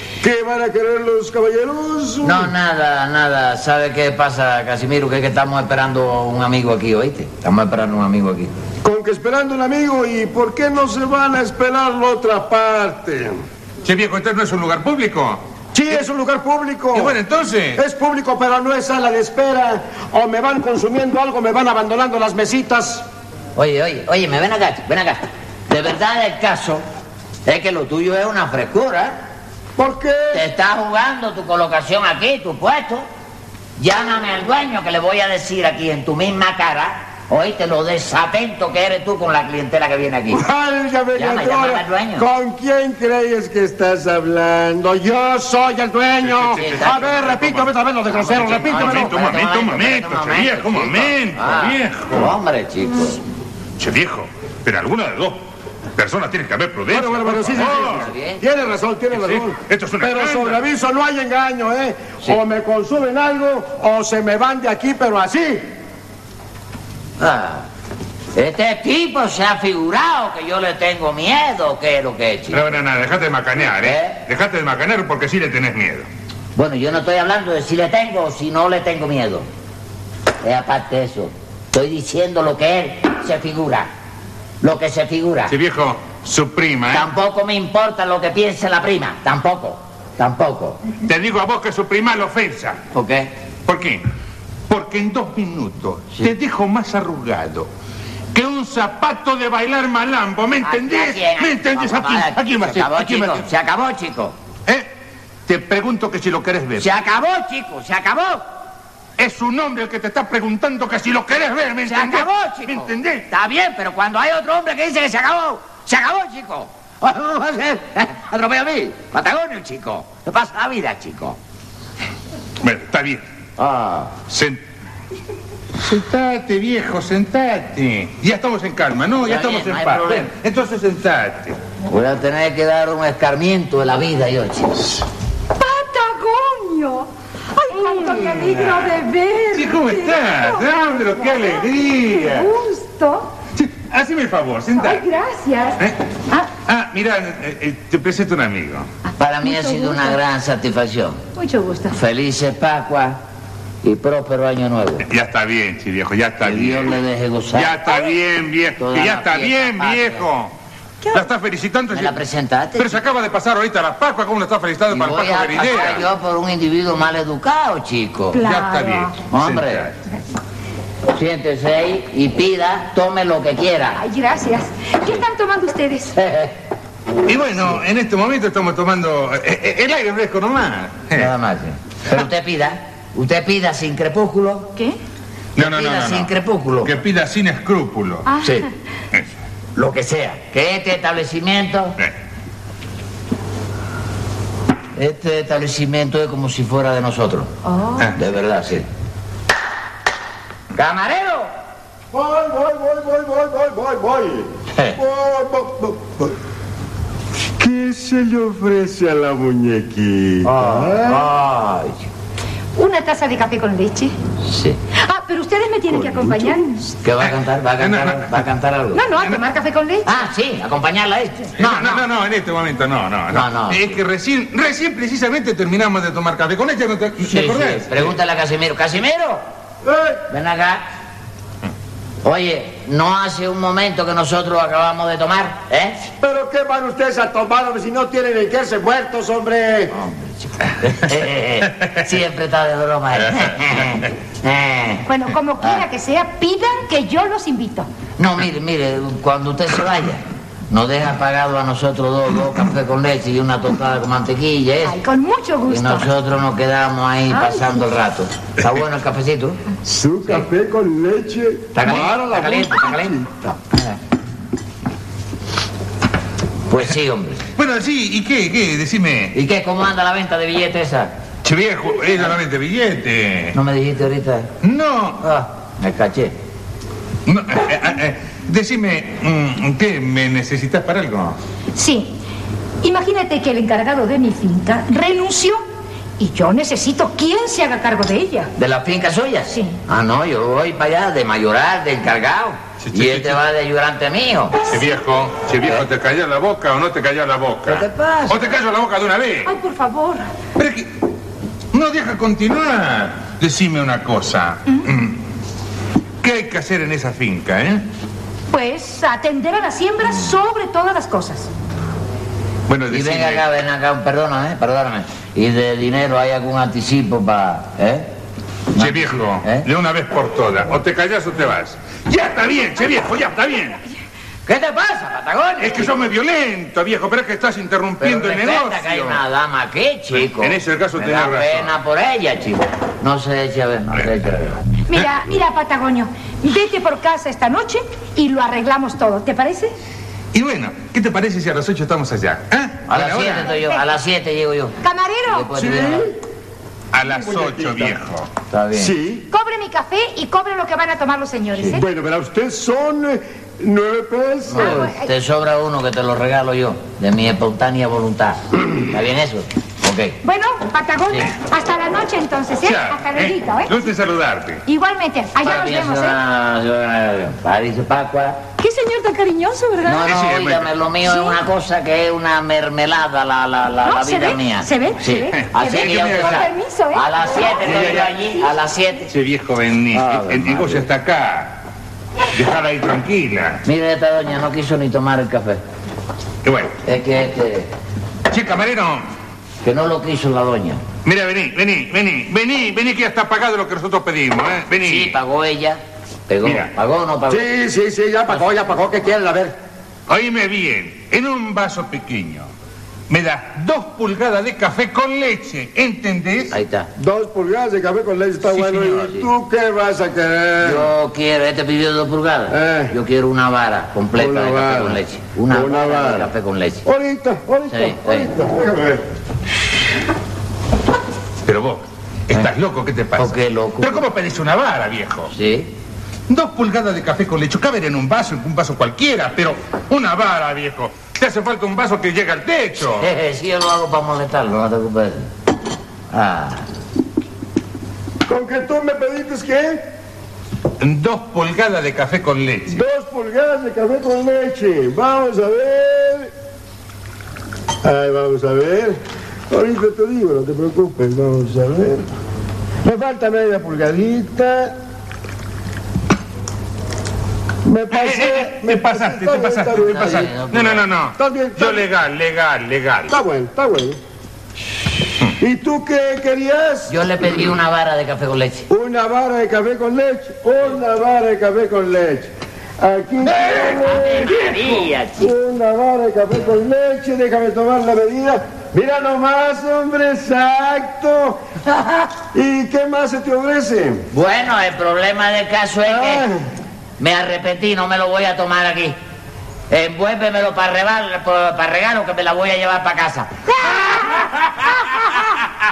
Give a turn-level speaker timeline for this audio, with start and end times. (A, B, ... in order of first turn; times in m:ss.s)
0:00.2-0:02.5 A
0:02.2-0:08.5 B
0:08.8-0:13.4 A
0:13.8-0:15.4 C
0:15.7-0:17.2 A
0:16.9-0:17.8 C
0:17.7-0:23.0 A
0:23.6-0:26.8 B
0:27.4-0:29.2 B
0:29.8-0:30.5 A
0:30.3-0:33.1 B
0:33.8-0:40.4 B
0:40.3-0:49.1 A
0:41.1-0:42.3 B
0:46.2-0:47.7 C
0:46.6-0:47.1 B
0:48.1-0:53.2 B
0:48.3-0:52.3 C
0:53.8-0:55.4 C
0:56.0-0:58.1 C
0:56.9-1:05.7 A
0:57.5-0:58.4 B
0:59.1-1:00.6 C
1:07.2-1:07.6 B
1:08.3-1:12.7 B
1:12.5-1:16.1 C
1:13.8-1:14.2 B
1:16.5-1:19.5 B
1:20.4-1:23.9 B
1:24.6-1:25.5 B
1:25.5-1:27.0 C
1:26.9-1:30.8 B
1:31.0-1:32.8 C
1:32.9-1:33.3 B
1:33.7-1:34.0 C
1:34.7-1:37.7 C
1:38.3-1:43.4 C
1:40.6-1:44.3 B
1:45.5-1:46.9 C
1:46.8-1:48.4 B
1:49.2-1:53.2 C
1:51.8-2:01.4 B
2:02.6-2:03.2 C
2:03.6-2:04.1 B
2:04.3-2:04.6 C
2:05.8-2:11.6 C
2:09.2-2:10.3 B
2:11.9-2:15.0 B
2:15.6-2:20.7 D
2:17.8-2:18.9 C
2:19.5-2:22.5 C
2:21.2-2:23.3 D
2:23.6-2:25.0 C
2:24.7-2:25.8 D
2:26.6-2:28.9 C
2:29.2-2:31.2 B
2:29.4-2:30.2 D
2:31.4-2:32.0 D
2:31.9-2:33.2 B
2:33.8-2:35.0 B
2:35.0-2:37.0 C
2:36.4-2:38.0 B
2:37.5-2:40.5 C
2:38.8-2:40.2 B
2:41.1-2:42.2 C
2:41.9-2:43.0 B
2:42.8-2:46.1 C
2:44.9-2:48.4 B
2:48.3-2:49.1 D
2:48.4-2:49.9 C
2:49.3-2:49.9 B
2:51.1-2:54.0 B
2:54.0-2:56.2 D
2:56.2-2:56.6 B
2:57.2-3:01.3 C
3:01.1-3:04.7 B
3:05.6-3:06.3 C
3:05.6-3:06.9 B
3:06.8-3:08.3 C
3:08.2-3:08.6 D
3:08.4-3:08.7 B
3:09.8-3:12.0 B
3:14.9-3:17.5 B
3:17.6-3:18.1 D
3:18.2-3:18.9 B
3:20.7-3:21.5 B
3:22.1-3:26.4 A
3:27.6-3:31.3 A
3:30.4-3:32.0 B
3:32.8-3:34.1 D
3:34.4-3:34.8 B
3:34.9-3:36.9 D
3:36.1-3:36.6 A
3:37.0-3:39.0 B
3:37.2-3:38.4 C
3:38.9-3:40.2 D
3:40.0-3:42.0 B
3:41.6-3:48.2 C
3:43.3-3:44.0 B
3:47.2-3:49.4 B
3:49.8-3:50.2 A
3:50.3-3:50.8 B
3:52.2-3:56.0 B
3:56.2-3:59.9 A
3:59.9-4:05.0 B
4:03.3-4:03.6 C
4:05.0-4:07.9 D
4:08.2-4:15.0 B
4:14.8-4:16.1 D
4:15.7-4:19.6 B
4:17.3-4:17.8 D
4:19.8-4:23.6 A
4:21.7-4:23.2 B
4:26.7-4:27.4 B
4:27.6-4:29.3 C
4:29.3-4:31.1 B
4:31.4-4:33.5 C
4:33.5-4:34.5 B
4:34.6-4:35.2 C
4:35.2-4:36.3 B
4:37.2-4:41.4 C
4:41.7-4:42.1 D
4:42.8-4:45.6 D
4:46.2-4:48.5 D
4:48.6-4:54.6 B
4:49.5-4:49.8 D
4:52.8-4:53.4 C
4:54.7-4:59.5 C
4:57.6-4:58.6 B
4:59.4-5:00.3 D
5:00.6-5:00.9 C
5:01.7-5:05.2 C
5:06.2-5:07.8 C
5:08.5-5:11.5 D
5:12.7-5:13.4 C
5:12.9-5:18.1 B
5:18.7-5:19.7 B
5:18.8-5:23.8 C
5:24.4-5:26.0 B
5:25.6-5:29.2 C
5:28.0-5:34.6 B
5:30.1-5:31.8 C
5:34.9-5:39.7 D
5:40.3-5:43.5 C
5:42.9-5:46.1 B
5:43.4-5:43.8 D
5:44.8-5:45.5 D
5:45.5-5:46.2 A
5:46.9-5:48.3 C
5:47.0-5:48.0 A
5:48.5-5:48.9 B
5:48.7-5:49.3 A
5:49.3-5:51.8 D
5:51.7-5:54.9 A
5:54.5-6:00.2 B
5:54.6-5:55.1 D
6:00.2-6:03.8 D
6:02.6-6:04.6 C
6:04.6-6:06.2 D
6:05.4-6:08.4 B
6:08.6-6:10.1 D
6:09.8-6:19.1 B
6:10.0-6:10.7 C
6:11.0-6:11.4 D
6:13.8-6:18.0 D
6:15.3-6:16.5 C
6:17.6-6:18.1 C
6:19.1-6:21.6 C
6:19.9-6:20.9 B
6:22.3-6:23.6 C
6:23.6-6:25.6 B
6:26.4-6:26.8 C
6:26.8-6:27.7 B
6:28.3-6:29.0 C
6:29.6-6:30.8 B
6:31.0-6:35.1 C
6:34.8-6:37.5 B
6:36.4-6:36.7 C
6:37.3-6:39.6 A
6:40.1-6:42.5 C
6:43.1-6:46.5 C
6:46.5-6:46.9 B
6:47.0-6:50.9 A
6:48.4-6:49.3 B
6:50.6-6:56.8 B
6:52.5-6:52.9 A
6:54.1-6:56.3 A
6:56.8-6:59.0 A
6:57.7-6:58.3 B
7:01.4-7:05.3 C
7:03.2-7:04.0 B
7:05.3-7:05.7 B
7:06.3-7:13.1 C
7:12.9-7:15.3 B
7:16.1-7:16.6 B
7:18.2-7:19.8 A
7:20.8-7:22.8 C
7:22.7-7:26.3 A
7:27.8-7:32.1 A
7:32.8-7:34.7 A
7:37.6-7:40.3 A
7:37.9-7:43.1 C
7:39.7-7:40.8 B
7:41.2-7:41.8 A
7:43.1-7:44.0 A
7:45.4-7:46.9 A
7:46.9-7:48.7 B
7:48.7-8:01.4 A
7:53.3-7:55.3 B
8:02.1-8:04.0 A
8:04.1-8:06.3 B
8:05.8-8:06.4 A
8:07.0-8:09.0 B
8:09.7-8:13.4 B